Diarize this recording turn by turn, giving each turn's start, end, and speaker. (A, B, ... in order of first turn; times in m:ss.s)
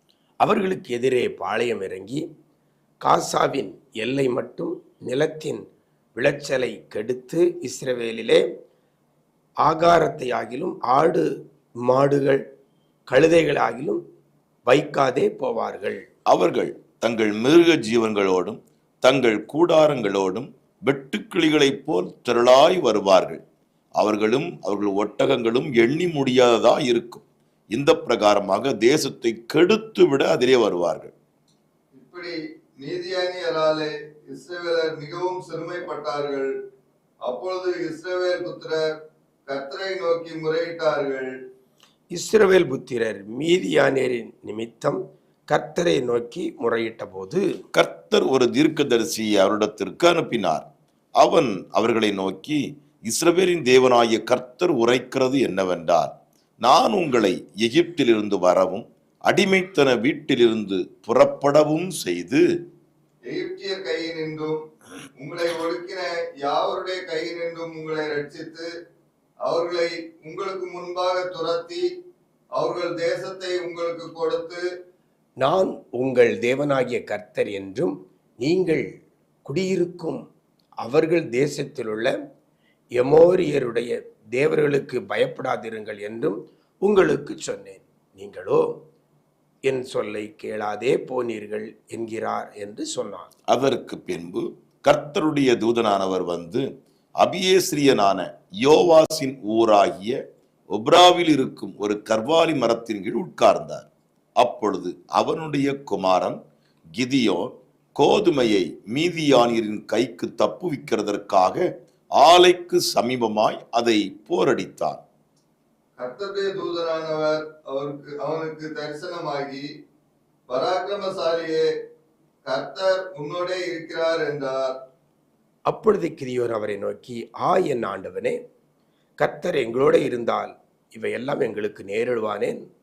0:00.4-0:02.2 A
0:03.0-0:05.6 A
0:06.2-0:08.4 A
0:09.6-0:11.3 A
0:11.9-0:12.4 A
0:13.1-0:14.0 A
0:14.7-0:16.0 A
0:16.3-0:23.4 B
0:24.0-0:31.1 B
0:32.0-0:36.5 C
0:37.2-0:38.8 C
0:39.5-0:41.4 C
0:42.1-0:45.0 A
0:45.5-0:47.4 A
0:47.7-0:50.6 B
0:51.2-1:02.4 B
1:03.3-1:04.6 C
1:05.2-1:08.7 C
1:09.4-1:11.8 C
1:12.6-1:14.6 C
1:15.4-1:18.9 A
1:19.4-1:20.2 A
1:20.8-1:22.1 A
1:23.0-1:28.7 A
1:29.7-1:33.3 A
1:33.5-1:36.6 B
1:37.2-1:40.2 B
1:40.7-1:43.9 B
1:44.4-1:46.4 B
1:47.0-1:51.7 B
1:52.2-1:55.0 B
1:56.0-1:59.7 C
2:00.5-2:01.6 C
2:02.4-2:04.8 C
2:05.7-2:08.4 A
2:09.2-2:12.6 A